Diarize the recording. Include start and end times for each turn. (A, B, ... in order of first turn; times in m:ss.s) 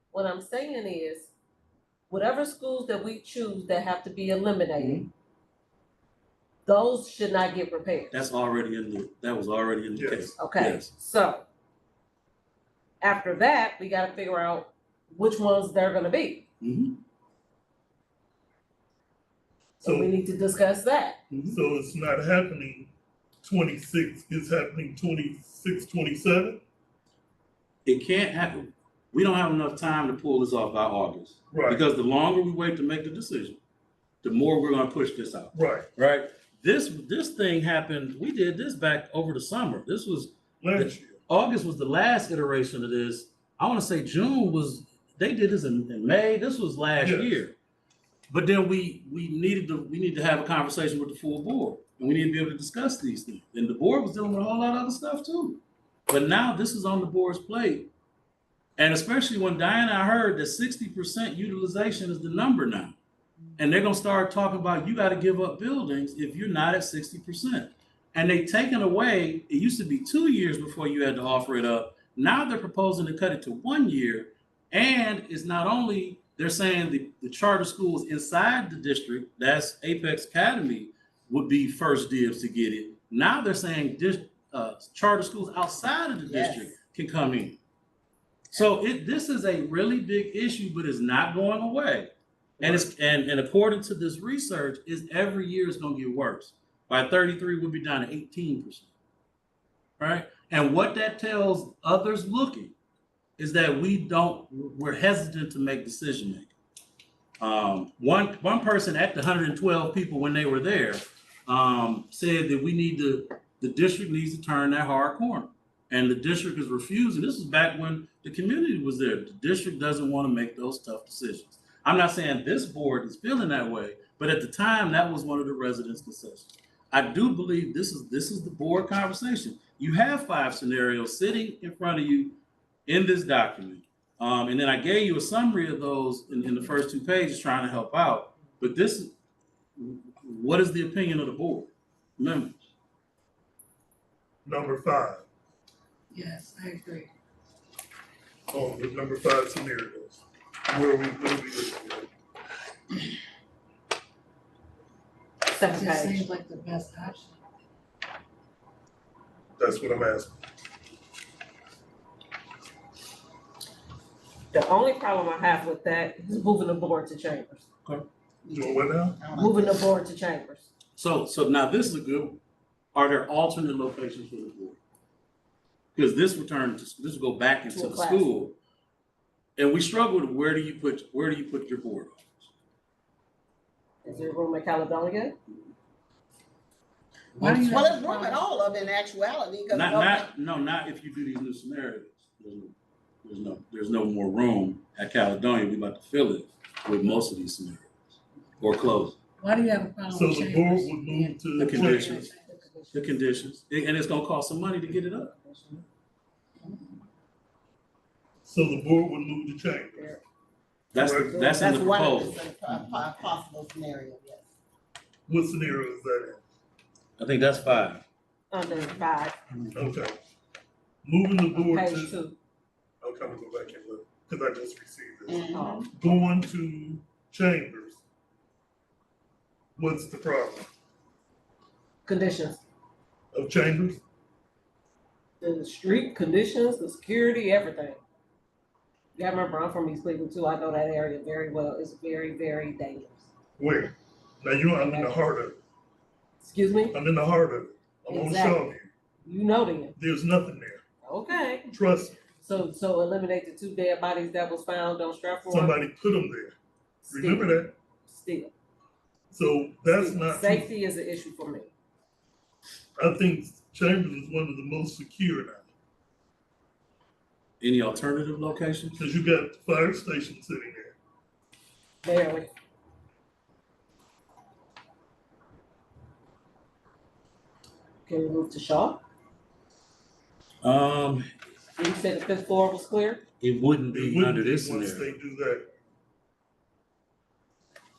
0:00.1-0:01.3 A
0:02.1-0:05.0 A
0:04.8-0:05.1 B
0:06.7-0:08.2 A
0:08.1-0:10.9 B
0:10.0-0:10.3 C
0:10.4-0:11.4 A
0:13.0-0:16.4 A
0:16.6-0:17.0 B
0:19.8-0:21.2 A
0:19.8-0:20.1 C
0:21.3-0:21.6 B
0:21.5-0:22.9 C
0:23.4-0:26.6 C
0:27.8-0:33.6 B
0:31.5-0:31.8 C
0:34.2-0:47.6 B
0:35.5-0:35.9 C
0:40.6-0:41.2 C
0:47.0-0:47.4 C
0:48.3-0:57.9 B
0:58.8-1:03.0 B
1:03.6-1:27.6 B
1:26.2-1:26.7 D
1:28.5-1:38.9 B
1:40.0-1:42.8 B
1:43.4-1:46.5 B
1:47.4-2:19.1 B
2:19.8-2:22.6 B
2:24.4-2:25.2 C
2:26.1-2:27.1 E
2:28.5-2:32.1 C
2:35.5-2:36.2 A
2:35.5-2:37.4 E
2:39.6-2:40.3 C
2:44.5-2:47.7 A
2:48.4-2:49.9 D
2:48.5-2:49.2 C
2:49.4-2:50.7 A
2:51.0-2:52.4 B
2:52.9-2:54.8 B
2:56.0-2:58.6 B
2:57.7-2:58.3 A
2:59.6-3:02.5 B
3:04.0-3:05.4 A
3:07.4-3:08.5 E
3:07.4-3:07.7 B
3:07.5-3:10.3 D
3:09.7-3:17.9 B
3:18.6-3:19.2 B
3:19.4-3:22.7 E
3:20.1-3:22.2 C
3:21.6-3:22.3 B
3:21.9-3:23.3 A
3:22.9-3:25.3 B
3:25.4-3:25.8 A
3:28.4-3:30.2 C
3:30.0-3:30.2 A
3:30.9-3:32.4 B
3:30.9-3:31.5 C
3:31.3-3:34.5 D
3:35.3-3:36.4 C
3:37.2-3:38.0 B
3:38.5-3:39.4 A
3:39.7-3:40.2 C
3:41.0-3:42.2 C
3:41.5-3:42.4 A
3:43.0-3:48.0 C
3:45.3-3:45.9 D
3:45.5-3:45.9 A
3:49.8-3:50.7 C
3:52.0-3:52.6 A
3:53.3-3:54.0 C
3:55.4-3:58.0 A
3:59.2-4:03.3 A
4:03.6-4:05.6 C
4:04.7-4:05.2 A
4:06.4-4:07.0 A
4:06.9-4:08.9 C
4:08.1-4:08.6 A
4:09.2-4:10.0 A
4:10.0-4:10.8 C
4:11.0-4:11.7 A
4:11.7-4:12.3 C
4:12.4-4:15.8 A
4:15.5-4:16.6 C
4:17.0-4:18.5 A
4:17.1-4:17.7 C
4:19.3-4:20.7 C
4:19.9-4:21.7 A
4:23.0-4:25.6 C
4:27.6-4:29.1 B
4:29.0-4:31.0 C
4:32.0-4:32.5 A
4:38.1-4:39.0 A
4:40.6-4:41.3 B
4:41.8-4:43.2 A
4:43.4-4:45.1 B
4:43.9-4:45.7 C